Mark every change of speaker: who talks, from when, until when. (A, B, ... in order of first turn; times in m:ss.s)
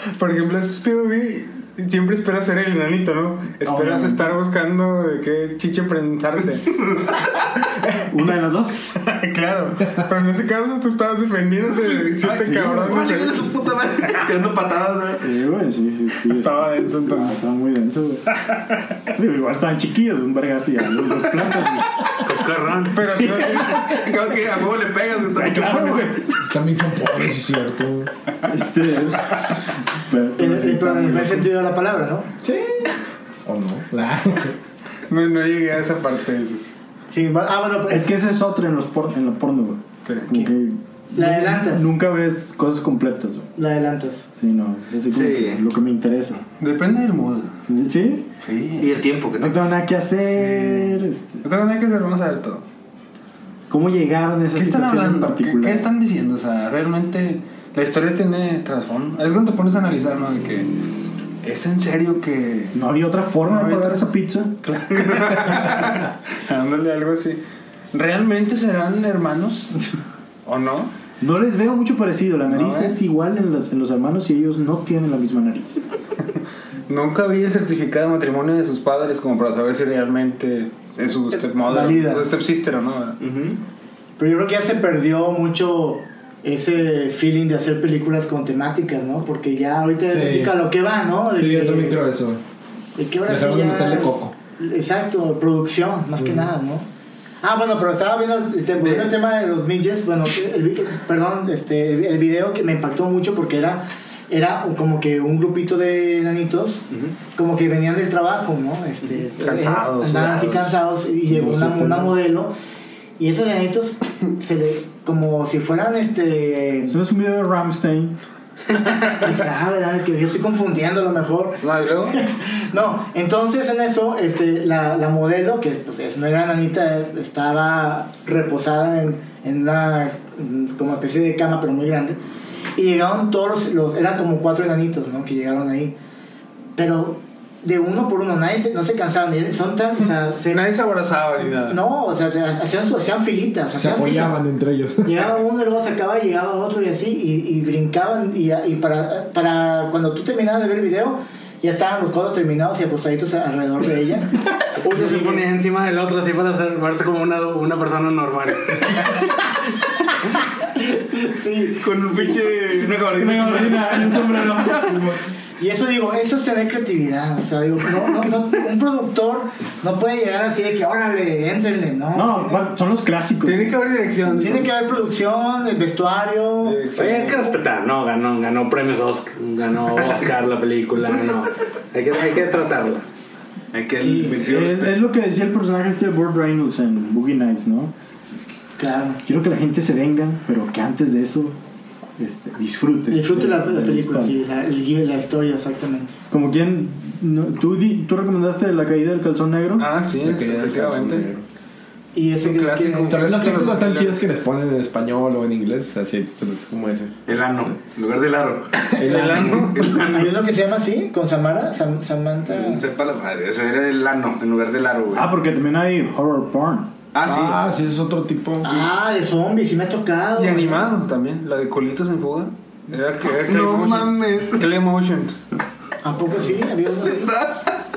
0:00.1-0:06.8 A
0:03.6-0:04.3 B
0:06.9-0:07.2 C
0:08.1-0:08.9 B
0:08.9-0:13.5 A
0:11.8-0:15.2 C
0:12.2-0:13.0 B
0:15.2-0:18.4 B
0:16.3-0:17.4 A
0:19.0-0:22.2 B
0:22.2-0:23.0 D
0:22.9-0:24.0 A
0:23.0-0:24.1 B
0:23.8-0:26.1 C
0:25.3-0:26.4 B
0:26.4-0:28.1 E
0:28.5-0:29.4 B
0:29.9-0:31.5 B
0:30.4-0:32.3 F
0:32.4-0:32.9 E
0:33.4-0:34.5 E
0:35.1-0:36.7 A
0:37.1-0:38.1 F
0:37.9-0:43.5 B
0:40.0-0:40.3 A
0:41.1-0:41.9 F
0:43.6-0:44.3 F
0:44.4-0:46.4 B
0:45.1-0:45.6 C
0:46.6-0:47.6 A
0:47.7-0:48.3 B
0:48.4-0:48.9 A
0:48.8-0:49.6 C
0:49.4-0:51.4 B
0:50.4-0:52.6 A
0:53.7-0:55.9 B
0:54.5-1:00.7 A
1:01.4-1:02.8 A
1:02.7-1:04.6 B
1:03.4-1:04.0 A
1:04.6-1:07.4 A
1:07.9-1:09.8 A
1:10.4-1:10.9 A
1:11.2-1:15.8 B
1:12.5-1:13.0 A
1:16.9-1:23.2 A
1:21.4-1:22.3 F
1:23.2-1:23.6 C
1:24.2-1:32.0 F
1:30.1-1:30.6 E
1:31.3-1:32.4 E
1:33.0-1:36.8 F
1:33.2-1:34.3 E
1:36.2-1:36.4 E
1:37.4-1:46.8 F
1:47.3-1:52.5 F
1:49.4-1:50.8 A
1:51.3-1:52.1 E
1:53.2-1:57.0 F
1:56.9-1:58.2 B
1:59.0-2:12.2 F
2:01.6-2:02.2 A
2:12.8-2:15.9 F
2:16.8-2:20.6 F
2:20.5-2:21.8 A
2:21.6-2:24.4 F
2:23.8-2:25.2 E
2:25.0-2:34.3 F
2:34.8-2:39.3 D
2:34.9-2:35.4 F
2:40.8-2:41.9 F
2:41.8-2:44.5 C
2:43.1-2:45.2 B
2:45.6-2:52.6 F
2:52.1-2:53.8 B
2:53.4-2:55.0 A
2:54.4-2:56.9 F
2:56.6-2:57.5 A
2:56.9-3:03.0 D
3:03.7-3:05.0 C
3:04.0-3:04.4 F
3:04.4-3:07.9 B
3:08.8-3:09.2 F
3:09.2-3:11.6 B
3:12.2-3:14.4 B
3:13.1-3:16.2 F
3:16.3-3:19.9 B
3:19.8-3:21.3 A
3:20.2-3:21.4 E
3:22.1-3:23.7 F
3:22.4-3:24.2 A
3:23.1-3:27.6 E
3:27.3-3:30.4 C
3:29.0-3:29.7 E
3:29.0-3:29.9 A
3:29.3-3:32.8 F
3:32.5-3:35.3 C
3:35.1-3:36.9 B
3:37.1-3:37.6 C
3:37.3-3:38.8 E
3:38.6-3:40.9 F
3:40.4-3:45.4 A
3:43.2-3:44.6 C
3:46.0-3:47.3 F
3:47.0-3:47.8 C